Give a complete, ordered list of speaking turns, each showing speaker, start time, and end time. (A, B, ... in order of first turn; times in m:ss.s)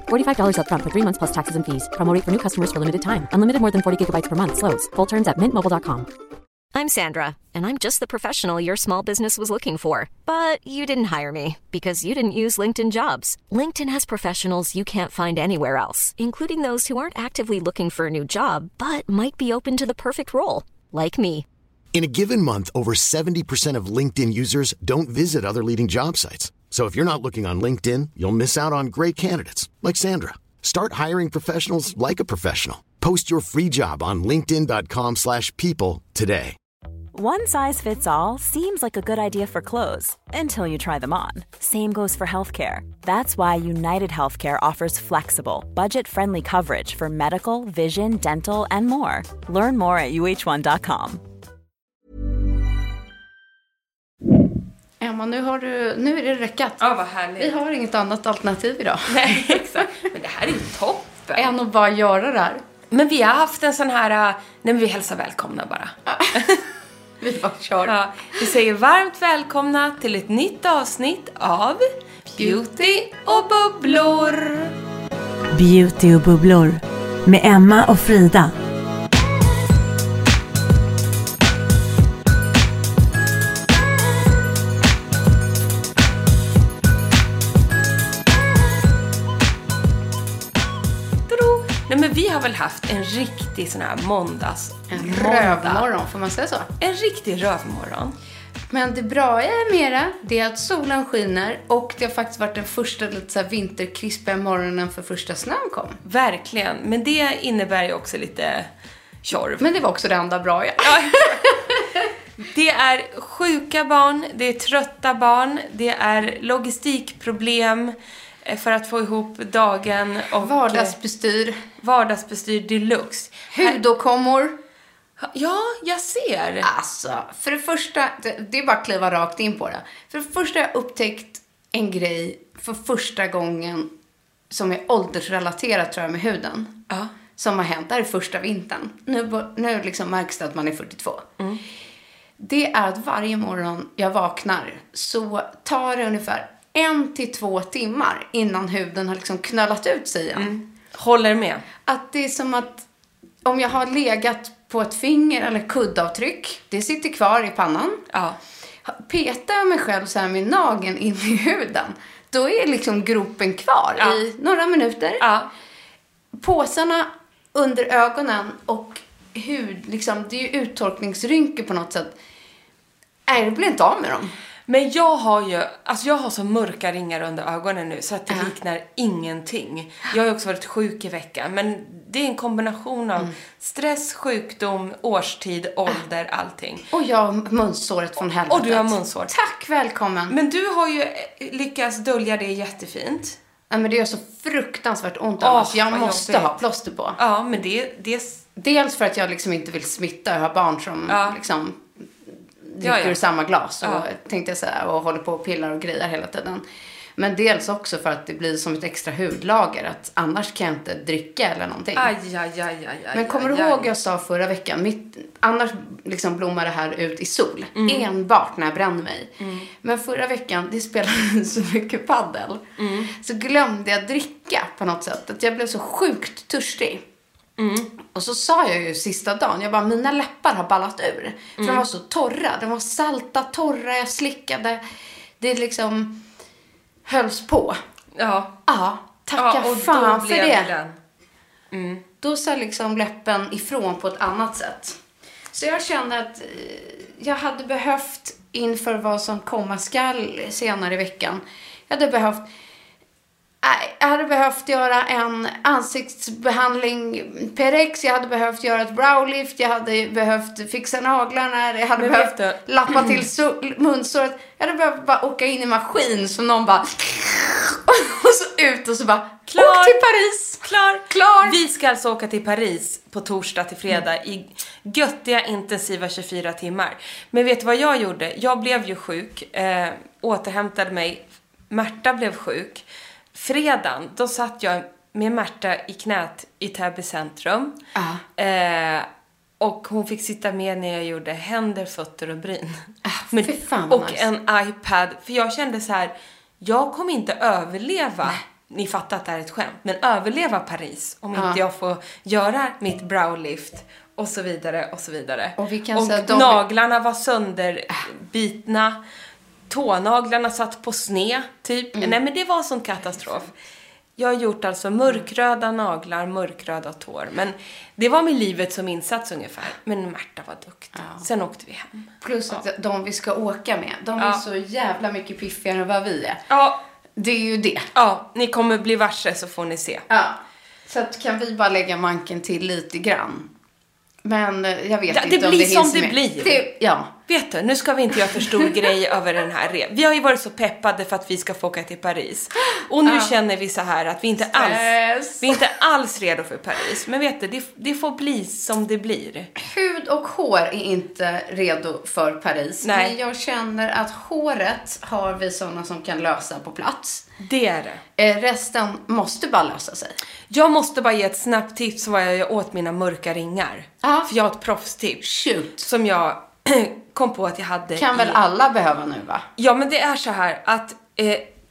0:00.1-0:06.1 A
0:06.7-0:21.4 B
0:21.9-0:36.6 C
0:37.1-0:51.2 D
0:55.0-0:56.8 E
0:56.8-0:57.5 F
0:57.4-0:59.8 E
0:59.0-1:01.5 F
1:01.4-1:02.6 E
1:02.9-1:06.6 F
1:06.1-1:06.4 E
1:07.2-1:07.9 E
1:07.8-1:14.7 F
1:15.5-1:18.5 G
1:31.3-1:35.9 F
1:34.9-1:36.7 E
1:36.8-1:38.1 F
1:38.7-1:46.0 E
1:46.0-1:48.7 F
1:49.2-1:49.6 F
1:49.6-1:52.1 E
1:50.8-1:51.4 F
1:52.4-2:01.0 F
2:00.4-2:01.6 E
2:01.8-2:03.8 F
2:03.5-2:04.6 E
2:05.2-2:06.7 F
2:06.6-2:13.9 E
2:14.5-2:16.8 E
2:17.4-2:21.3 E
2:22.4-2:30.6 E
2:30.3-2:31.6 F
2:31.9-2:32.8 E
2:33.4-2:38.0 E
2:38.1-2:38.4 F
2:38.9-2:45.2 E
2:45.2-2:45.5 F
2:46.3-2:52.1 E
2:53.3-2:54.3 E
2:54.7-3:06.8 F
3:06.9-3:10.4 E
3:08.5-3:09.3 F
3:10.3-3:13.4 F
3:13.7-3:17.2 E
3:15.4-3:16.5 F
3:17.2-3:18.4 F
3:18.6-3:21.8 E
3:21.1-3:21.4 F
3:22.6-3:26.6 E
3:22.8-3:23.2 F
3:23.8-3:24.1 F
3:27.2-3:32.1 E
3:31.9-3:33.9 F
3:33.1-3:39.3 E
3:37.8-3:38.1 F
3:39.4-3:39.7 F
3:39.8-3:47.0 E
3:42.8-3:43.1 F
3:47.6-3:47.9 F
3:48.1-3:54.8 E
3:51.6-3:51.8 F
3:55.4-3:56.2 E
3:57.0-3:57.8 E
3:58.1-3:58.6 F
3:58.7-4:00.7 E
3:59.4-4:01.0 F
4:01.7-4:02.0 F
4:02.2-4:05.0 E
4:05.5-4:12.4 E
4:13.6-4:31.6 E
4:22.0-4:23.2 F
4:29.5-4:30.0 F
4:30.6-4:47.7 F
4:47.9-4:48.2 E
4:48.4-4:49.1 F
4:49.6-5:09.0 F
4:53.0-4:54.2 E
5:01.3-5:01.6 E
5:05.6-5:06.6 E
5:09.7-5:13.5 F
5:14.2-5:22.6 F
5:20.9-5:21.2 E
5:22.2-5:26.4 E
5:24.2-5:24.4 F
5:26.5-5:26.8 F
5:27.2-5:27.9 E
5:27.9-5:30.0 F
5:30.1-5:33.5 E
5:34.2-5:37.1 E
5:35.1-5:36.6 F
5:37.3-5:49.5 F
5:38.4-5:38.7 E
5:43.0-5:43.3 E
5:44.4-5:45.6 E
5:49.6-5:57.2 E
5:52.8-5:53.2 F
5:57.4-5:58.0 F
5:58.2-6:00.2 E
6:00.5-6:05.2 F
6:04.0-6:04.3 E
6:05.2-6:05.9 E
6:05.8-6:08.4 F
6:08.0-6:09.4 E
6:09.6-6:11.5 F